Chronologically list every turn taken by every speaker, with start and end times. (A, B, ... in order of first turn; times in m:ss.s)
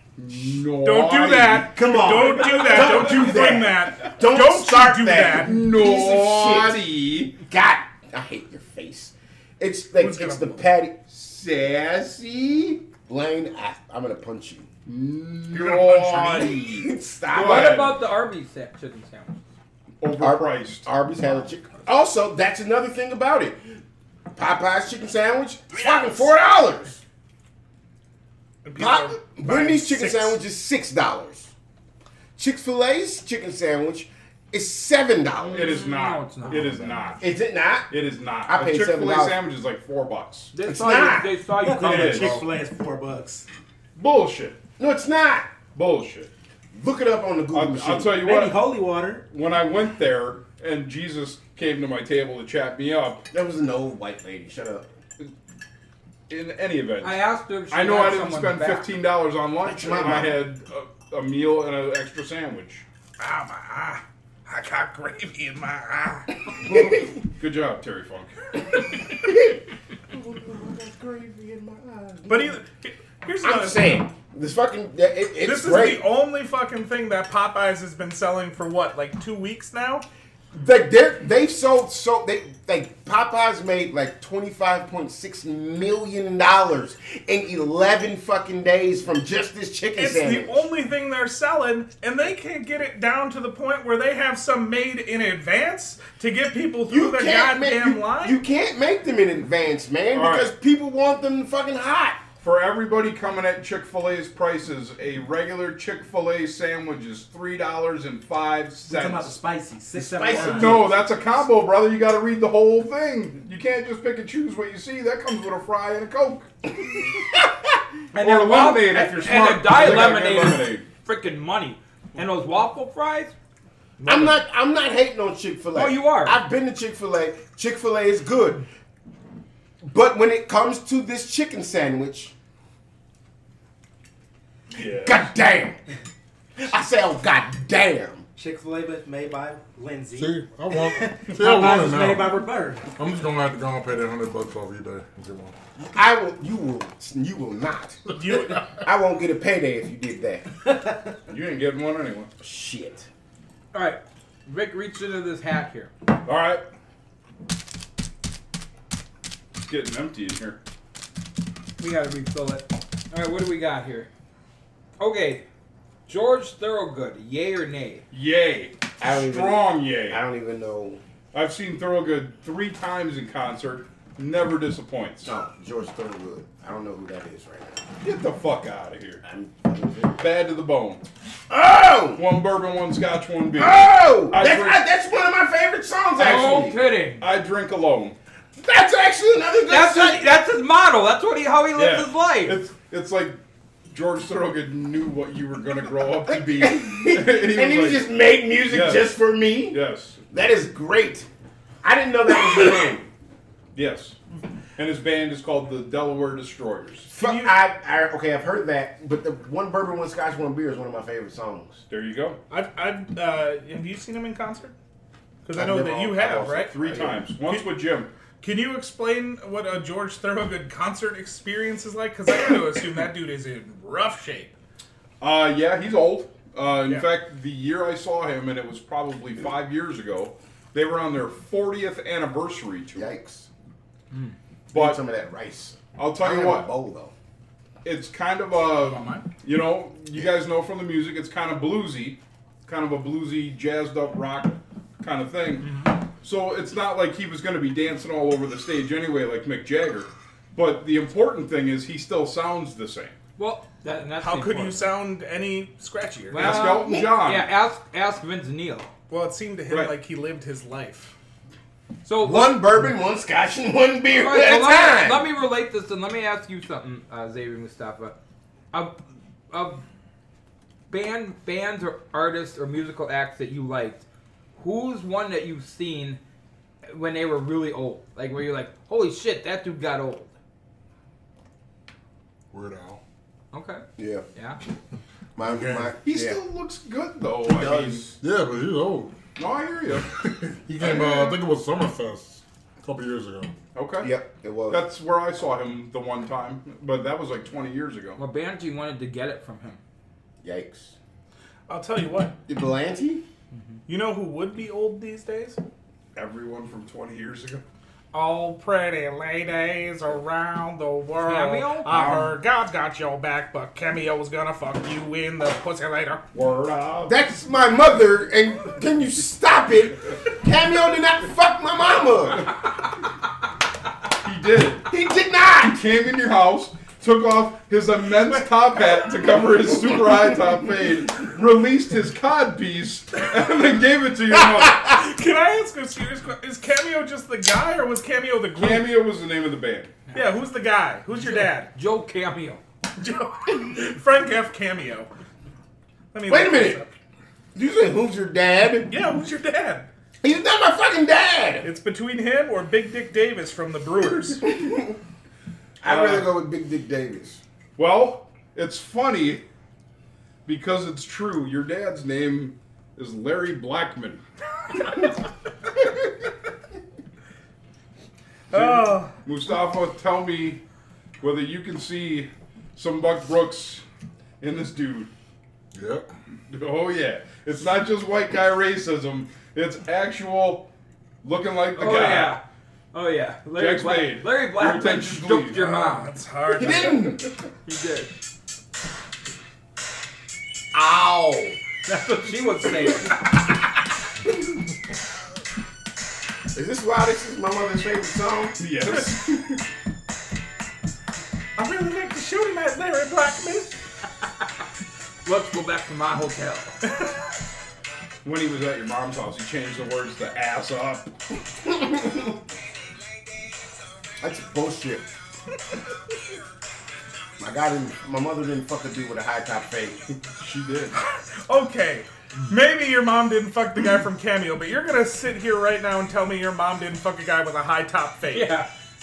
0:00.2-0:02.0 A
0:00.8-0:05.6 B
0:01.7-0:06.8 C
0:05.4-0:07.4 A
0:07.4-0:14.7 C
0:10.0-0:10.7 B
0:14.9-0:18.0 A
0:15.5-0:17.8 C
0:16.1-0:16.4 B
0:17.4-0:19.4 D
0:20.0-0:20.9 A
0:20.2-0:23.8 C
0:24.3-0:27.0 C
0:28.6-0:30.4 B
0:28.8-0:31.5 C
0:32.4-0:35.8 C
0:35.5-0:37.2 A
0:35.6-0:37.2 D
0:37.2-0:39.4 C
0:37.9-0:40.5 A
0:40.5-0:42.5 D
0:40.6-0:41.4 C
0:41.6-0:43.5 E
0:41.8-0:42.4 A
0:44.0-0:44.6 A
0:44.8-0:45.5 C
0:45.8-0:46.3 A
0:46.7-0:48.2 C
0:47.5-0:48.6 A
0:48.1-0:49.2 E
0:49.3-0:53.2 A
0:53.3-0:54.9 C
0:56.3-1:02.8 A
0:57.0-0:58.9 D
0:59.6-1:00.4 C
1:03.2-1:07.0 B
1:06.6-1:07.1 C
1:07.4-1:08.3 A
1:09.2-1:09.6 C
1:10.1-1:12.6 C
1:12.3-1:14.0 B
1:13.4-1:16.1 C
1:15.4-1:20.0 B
1:20.5-1:30.7 C
1:30.0-1:38.4 B
1:36.9-1:42.2 C
1:40.1-1:40.5 A
1:42.4-1:49.4 A
1:48.9-1:50.9 E
1:49.9-1:51.0 C
1:50.3-1:56.5 A
1:57.1-1:57.4 C
1:58.1-2:00.9 A
1:58.1-2:03.3 D
2:04.0-2:08.7 C
2:05.8-2:06.4 D
2:09.8-2:12.3 C
2:14.7-2:15.3 A
2:15.0-2:15.8 C
2:16.6-2:18.2 C
2:18.4-2:22.9 E
2:20.1-2:25.6 F
2:25.8-2:30.4 C
2:28.2-2:28.6 B
2:31.3-2:32.3 A
2:32.4-2:33.1 C
2:33.7-2:35.9 D
2:36.2-2:36.6 A
2:39.6-2:40.6 A
2:41.8-2:44.1 D
2:45.0-2:45.4 D
2:46.1-2:48.0 D
2:48.1-2:50.2 A
2:49.0-2:51.0 C
2:51.3-2:55.3 A
2:55.2-2:57.8 C
2:58.0-2:59.2 A
2:59.2-3:00.2 C
3:00.2-3:01.0 A
3:01.5-3:02.2 C
3:02.2-3:04.9 A
3:03.6-3:06.8 C
3:06.2-3:07.2 D
3:07.2-3:08.2 A
3:08.6-3:10.3 C
3:09.7-3:12.6 D
3:11.8-3:13.4 A
3:13.9-3:18.1 A
3:16.3-3:19.8 C
3:18.7-3:19.1 A
3:19.7-3:20.2 A
3:20.3-3:21.3 C
3:21.8-3:23.1 C
3:23.8-3:24.2 A
3:24.8-3:27.1 A
3:27.1-3:27.6 B
3:27.1-3:31.8 C
3:31.9-3:32.4 A
3:32.5-3:34.8 B
3:35.4-3:36.8 B
3:35.5-3:37.2 C
3:36.4-3:38.1 A
3:37.4-3:37.7 B
3:38.4-3:44.5 B
3:45.2-3:53.1 A
3:46.8-3:47.1 B
3:52.9-3:53.5 C
3:54.7-3:57.1 C
3:54.7-3:55.0 A
3:56.0-3:56.7 A
3:57.8-4:13.1 A
3:58.8-3:59.3 B
4:05.6-4:05.9 B
4:13.4-4:14.9 D
4:14.2-4:16.6 B
4:16.3-4:18.9 D
4:16.3-4:17.5 A
4:16.6-4:17.0 C
4:19.1-4:21.1 B
4:22.0-4:22.6 D
4:22.2-4:25.3 C
4:24.2-4:28.2 D
4:28.7-4:29.0 D
4:29.5-4:29.8 D
4:30.9-4:34.0 D
4:34.6-4:36.2 D
4:36.9-4:40.3 D
4:42.5-4:43.0 F
4:43.5-4:44.6 D
4:44.0-4:44.2 C
4:45.4-4:46.4 C
4:45.4-4:45.9 F
4:46.0-4:48.1 A
4:47.4-4:48.2 C
4:48.2-4:49.1 F
4:49.4-4:50.1 A
4:50.3-4:53.6 F
4:50.8-4:51.2 A
4:53.8-4:54.2 A
4:54.0-4:54.8 C
4:54.7-4:58.2 A
4:58.2-4:59.8 D
5:00.4-5:01.0 C
5:01.7-5:02.4 B
5:02.5-5:03.2 C
5:03.9-5:05.6 B
5:06.1-5:07.6 A
5:08.1-5:16.2 B
5:11.2-5:12.3 D
5:11.9-5:12.2 A
5:16.3-5:17.2 A
5:17.1-5:22.5 C
5:24.2-5:24.9 A
5:24.9-5:25.8 C
5:25.6-5:35.0 A
5:34.8-5:38.9 B
5:38.6-5:39.9 A
5:40.1-5:41.7 B
5:41.2-5:42.6 D
5:43.0-5:45.1 B
5:46.1-5:46.9 B
5:46.3-5:46.8 C
5:47.6-5:48.9 C
5:48.9-5:49.9 B
5:50.2-5:51.7 C
5:51.6-5:54.5 B
5:54.4-5:54.9 C
5:55.8-5:57.4 C
5:55.8-5:56.3 A
5:57.8-5:59.4 A
6:00.4-6:04.2 A
6:08.5-6:09.1 B
6:08.5-6:10.6 A
6:11.2-6:13.8 A
6:14.4-6:15.1 A
6:15.7-6:16.1 F
6:16.5-6:20.7 A
6:21.2-6:22.4 A
6:21.8-6:22.4 D
6:22.9-6:26.1 D
6:23.6-6:25.6 A
6:25.5-6:27.2 B
6:26.5-6:27.3 C
6:27.6-6:28.1 D
6:30.7-6:31.6 C
6:31.8-6:33.2 D
6:36.5-6:38.6 C
6:38.6-6:39.6 A
6:41.6-6:43.7 B
6:45.2-6:46.8 D
6:46.9-6:47.1 B
6:48.2-6:51.1 A
6:51.6-6:52.3 C
6:54.2-6:55.1 C
6:57.4-7:00.1 C
7:00.1-7:01.0 A
7:00.9-7:08.6 B
7:08.3-7:08.7 D